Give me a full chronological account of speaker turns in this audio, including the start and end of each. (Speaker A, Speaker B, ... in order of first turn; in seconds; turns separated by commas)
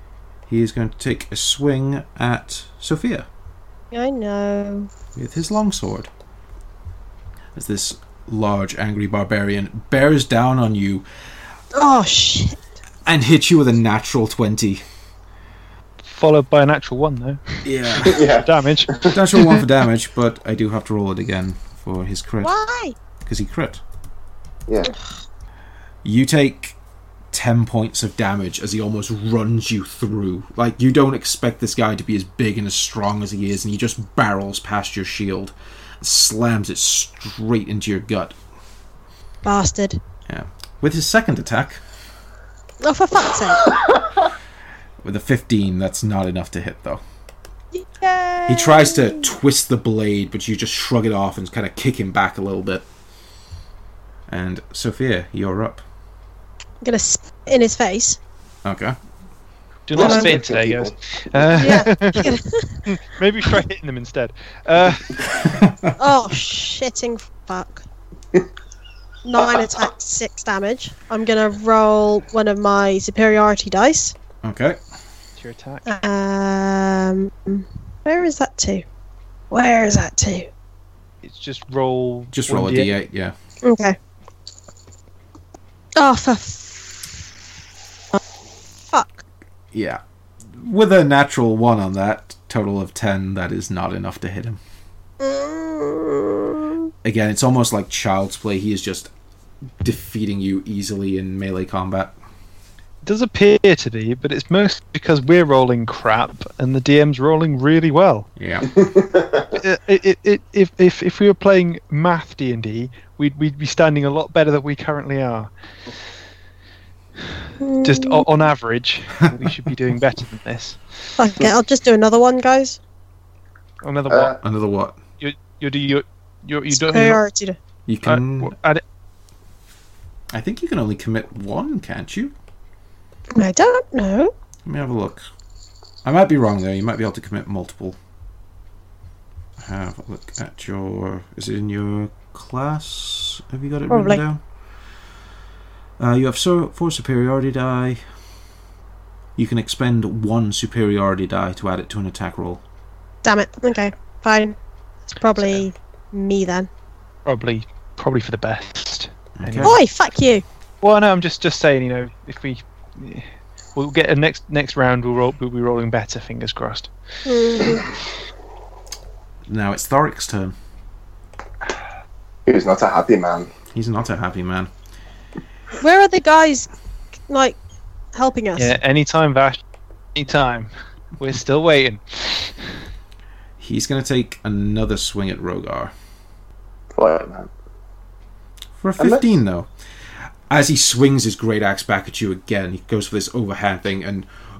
Speaker A: 0.5-3.3, Speaker B: 3.9-4.9, Speaker A: 5.2-6.1, Speaker A: 7.5-11.1, Speaker B: 11.7-12.6, Speaker A: 13.1-14.8, Speaker C: 16.0-19.1, Speaker A: 17.6-18.2, Speaker D: 18.0-19.6, Speaker A: 19.1-22.5, Speaker B: 22.4-23.0, Speaker A: 23.2-23.8, Speaker D: 24.7-24.9, Speaker A: 26.0-26.8, Speaker A: 27.3-38.4, Speaker B: 39.4-40.0, Speaker A: 40.3-41.8, Speaker B: 42.8-43.8, Speaker D: 43.7-44.2, Speaker A: 45.0-47.0, Speaker B: 47.7-49.3, Speaker A: 48.5-52.9, Speaker A: 54.3-55.8, Speaker B: 56.8-58.2, Speaker A: 58.6-59.0, Speaker C: 59.9-62.3, Speaker D: 59.9-61.9, Speaker B: 60.0-60.3, Speaker B: 61.5-62.9, Speaker C: 62.9-65.3, Speaker A: 65.4-65.9, Speaker B: 66.0-67.8, Speaker B: 69.2-74.2, Speaker A: 74.4-74.8, Speaker C: 75.4-75.9, Speaker B: 75.9-78.8, Speaker B: 79.5-80.5, Speaker C: 81.2-82.9, Speaker A: 82.3-83.3, Speaker B: 83.6-84.0, Speaker B: 86.0-87.1, Speaker B: 88.9-89.2, Speaker A: 89.7-94.6, Speaker B: 95.2-96.9, Speaker A: 97.0-99.1, Speaker A: 99.8-102.2, Speaker C: 103.0-108.3, Speaker A: 108.4-108.7, Speaker D: 108.7-109.5, Speaker C: 109.5-115.5, Speaker B: 117.6-118.3, Speaker C: 117.8-121.1, Speaker B: 121.2-122.8, Speaker C: 123.8-124.4, Speaker D: 124.1-124.4, Speaker A: 124.4-125.0, Speaker C: 125.2-127.2, Speaker B: 126.7-127.6, Speaker A: 127.9-128.5, Speaker C: 128.0-128.8, Speaker A: 130.3-132.3, Speaker B: 133.3-134.3, Speaker A: 134.7-135.2, Speaker A: 136.0-138.0, Speaker A: 139.6-144.4, Speaker B: 143.9-144.2, Speaker A: 146.0-148.0, Speaker A: 149.4-152.6, Speaker B: 153.2-154.6, Speaker B: 155.1-156.7, Speaker C: 157.3-159.8, Speaker A: 159.4-159.8, Speaker B: 159.6-160.4, Speaker C: 160.8-166.9, Speaker B: 167.3-167.9, Speaker A: 169.5-170.6, Speaker D: 172.5-173.5, Speaker A: 173.7-174.7, Speaker B: 175.8-176.7, Speaker B: 177.3-177.6, Speaker B: 178.1-178.7, Speaker C: 178.6-179.6, Speaker C: 180.2-182.7, Speaker A: 183.6-185.9, Speaker D: 187.0-187.5, Speaker A: 188.8-189.7, Speaker D: 189.0-189.3, Speaker A: 190.5-194.3